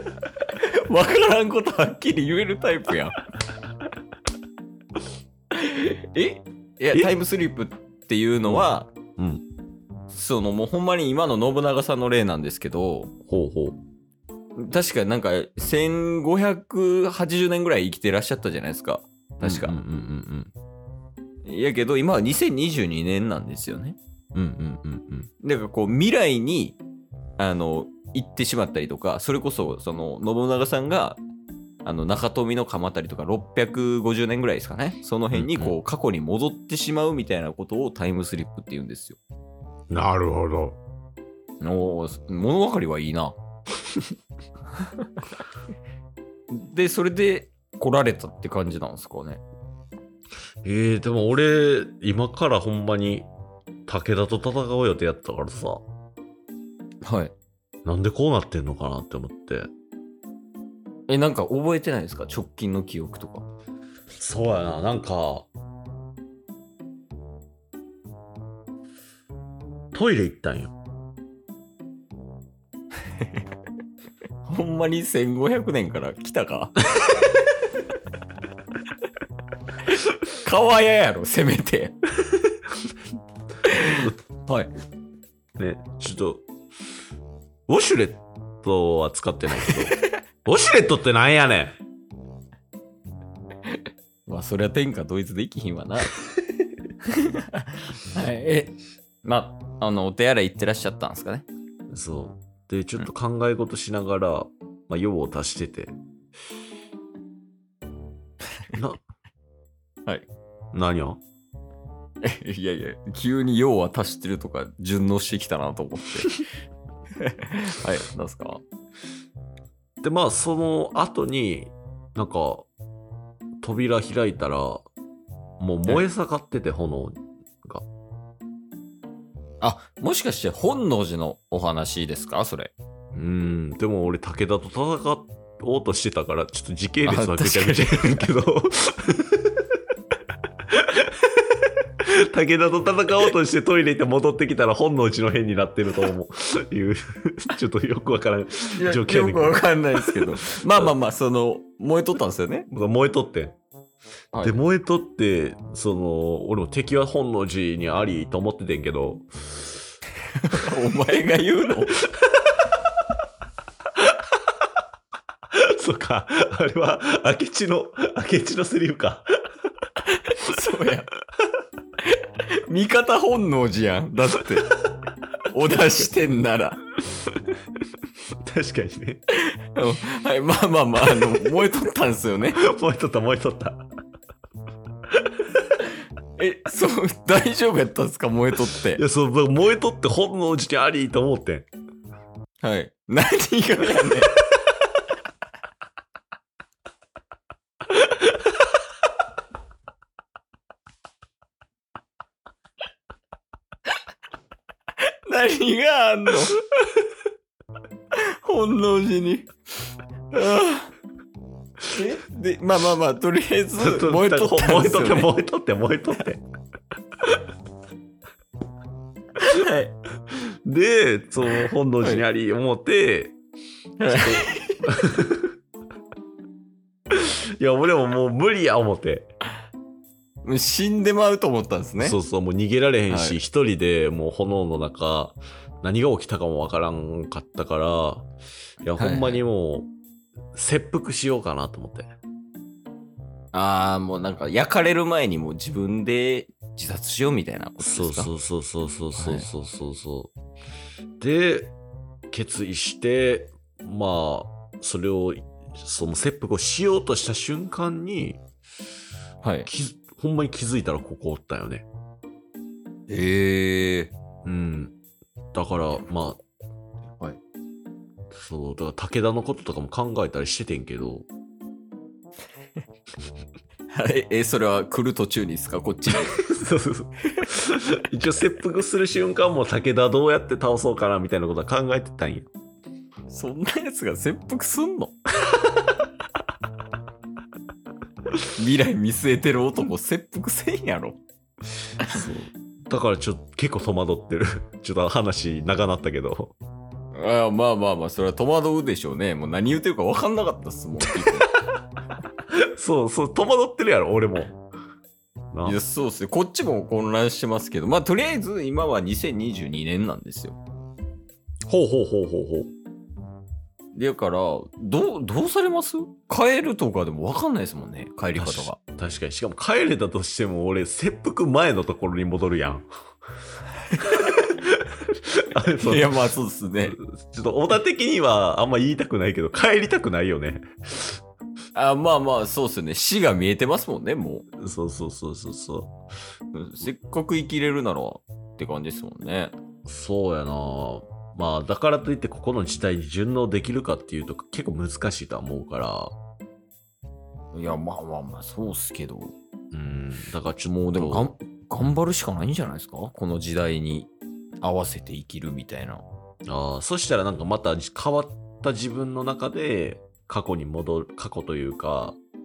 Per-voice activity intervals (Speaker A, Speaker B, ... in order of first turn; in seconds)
Speaker A: 0.4-3.2, 5.5-8.9, 10.1-13.1, 14.6-19.8, 21.4-24.0, 25.4-26.8, 27.4-31.2, 31.9-39.2, 41.6-43.4, 44.8-45.1, 46.5-49.4, 57.0-57.3, 61.1-63.5, 73.2-73.4, 74.5-77.4, 79.9-82.0, 83.6-84.7, 89.6-90.1, 93.7-96.2, 97.1-101.5, 112.2-116.5, 117.2-118.6, 129.6-132.7, 137.1-138.3, 148.7-152.7, 154.3-154.6, 160.3-162.0, 170.1-171.1, 172.0-174.7, 175.5-176.8, 179.3-182.6, 185.8-189.0, 192.6-194.4, 205.0-207.0, 208.1-209.5, 210.3-210.9, 211.9-215.3, 219.4-219.9, 224.0-224.9, 230.4-232.2, 233.1-233.4, 239.0-239.4, 243.5-248.3, 249.2-249.5, 259.4-259.7, 263.1-264.1, 273.9-276.4, 277.2-277.5, 283.3-285.2, 288.6-291.2, 297.1-301.5, 305.6-310.6, 314.0-318.8, 323.9-324.5, 325.8-327.0, 331.7-334.4, 336.5-339.5, 347.5-349.3, 350.7-354.1, 354.6-356.0
Speaker B: 9.2-9.4, 13.3-13.8, 19.4-20.5, 24.4-25.3, 35.3-35.8, 39.9-40.8, 50.6-53.3, 53.9-55.9, 57.9-59.7, 64.2-65.5, 69.9-70.7, 85.6-86.5, 87.7-91.8, 101.9-106.0, 108.7-109.0, 110.7-111.2, 120.0-122.7, 123.6-124.9, 125.6-127.9, 133.1-139.6, 140.7-150.2, 152.7-153.6, 154.4-159.3, 165.5-169.3, 178.3-179.2, 182.6-183.8, 188.9-191.7, 213.8-216.4, 220.3-223.4, 224.1-225.5, 227.1-229.3, 232.0-238.3, 238.8-239.9, 240.6-242.1, 247.8-250.3, 251.2-251.7, 252.3-258.4, 259.7-261.9, 264.4-264.9, 265.5-266.4, 268.4-271.3, 276.3-282.5, 292.0-296.6, 302.5-304.6, 305.5-305.8, 311.7-312.7, 318.4-322.9, 324.1-326.2, 326.9-331.2, 334.6-335.9, 339.9-346.1, 349.7-351.3, 356.5-362.2